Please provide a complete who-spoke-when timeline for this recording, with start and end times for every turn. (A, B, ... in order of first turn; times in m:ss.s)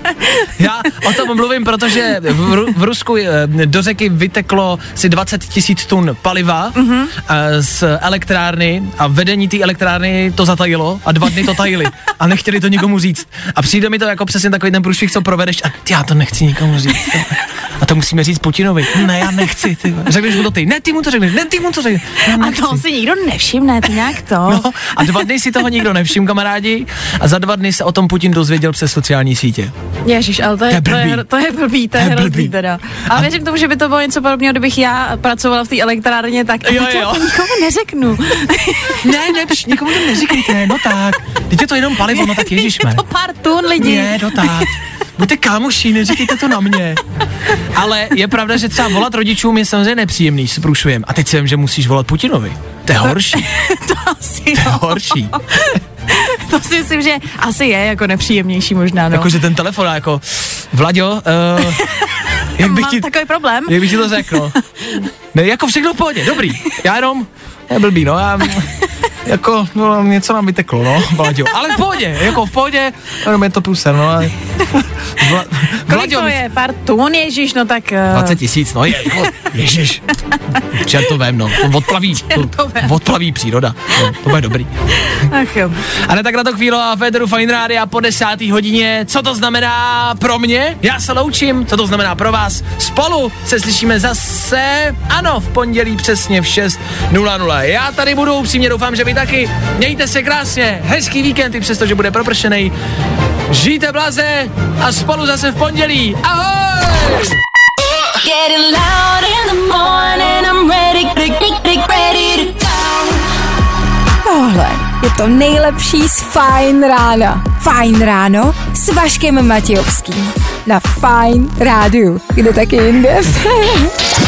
0:00.6-0:22.8 A
0:06.8-0:07.1 B
0:22.3-0:25.2 B
0:24.5-0:29.7 A
0:30.0-0:40.7 B
0:30.7-0:31.2 A
0:32.0-0:32.5 A
0:36.6-0:37.4 A
0:39.0-0:43.0 A
0:42.1-0:44.7 B
0:43.8-0:47.0 A
0:47.7-0:53.5 A
0:53.0-0:59.4 B
0:54.6-0:55.3 A
0:59.1-1:01.8 A
1:01.7-1:05.0 B
1:02.6-1:03.1 A
1:03.6-1:04.6 A
1:05.3-1:08.7 A
1:09.2-1:16.4 A
1:15.9-1:18.4 B
1:18.1-1:20.1 A
1:20.7-1:24.7 A
1:21.9-1:22.9 B
1:25.0-1:25.8 B
1:25.9-1:42.7 A
1:43.5-1:47.4 A
1:48.2-1:53.3 C
1:54.3-2:03.7 D